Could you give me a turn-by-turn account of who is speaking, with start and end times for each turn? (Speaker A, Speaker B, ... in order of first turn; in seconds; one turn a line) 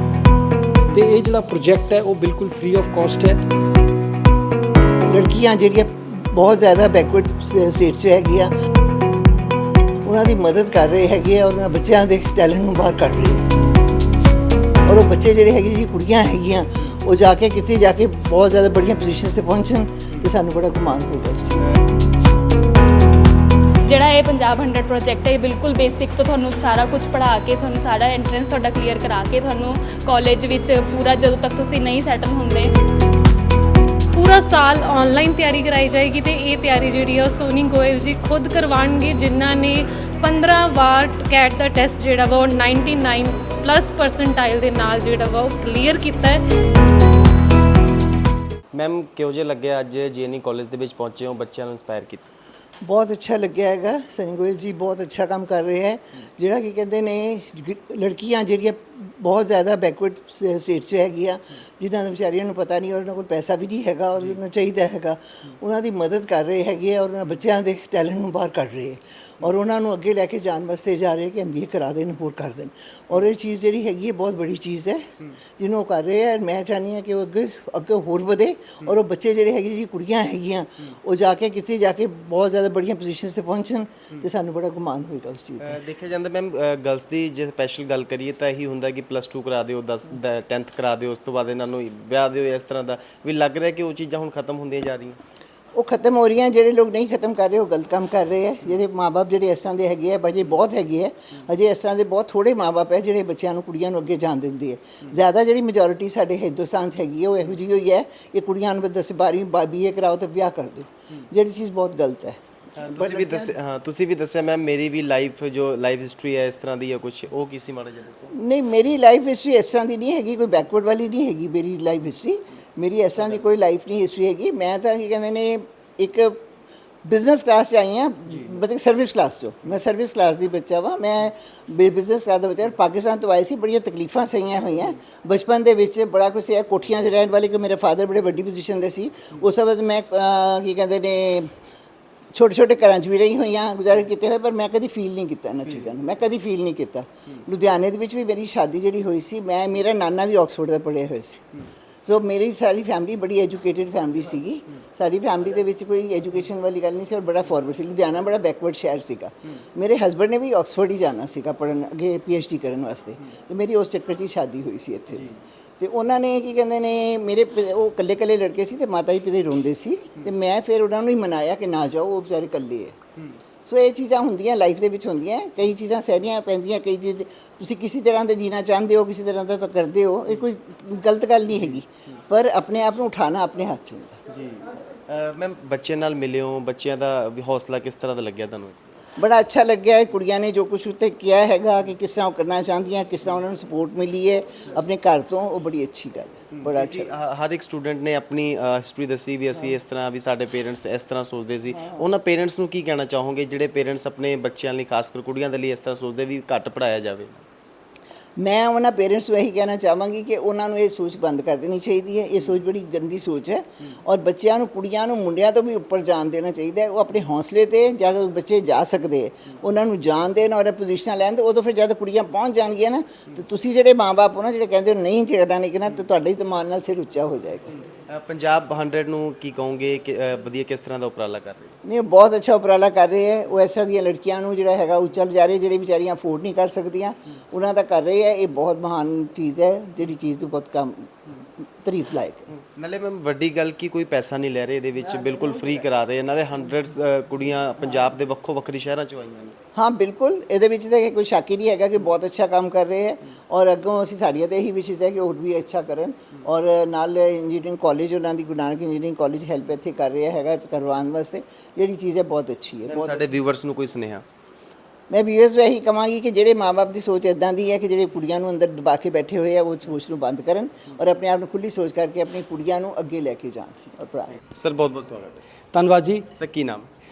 Speaker A: 0.9-3.4
Speaker B: 5.0-8.5
Speaker B: 10.1-13.5
Speaker B: 14.9-21.6
Speaker C: 23.8-32.7
Speaker D: 34.1-46.4
Speaker E: 48.7-52.2
Speaker B: 52.8-85.8
Speaker E: 85.6-95.2
Speaker B: 95.8-113.5
Speaker E: 112.8-118.3
Speaker B: 118.3-126.4
Speaker B: 127.0-141.5
Speaker B: 142.3-151.4
Speaker B: 152.1-173.0
Speaker B: 173.7-184.2
Speaker E: 184.3-188.9
Speaker B: 189.2-197.1
Speaker E: 196.6-207.4
Speaker B: 208.4-227.8
Speaker E: 228.1-231.8
Speaker B: 231.8-241.2
Speaker B: 241.8-242.5
Speaker E: 242.6-249.6
Speaker B: 245.1-245.8
Speaker B: 249.8-263.3
Speaker E: 262.9-264.2
Speaker B: 265.1-274.4
Speaker E: 274.5-275.4
Speaker A: 275.7-276.3
Speaker E: 276.4-276.9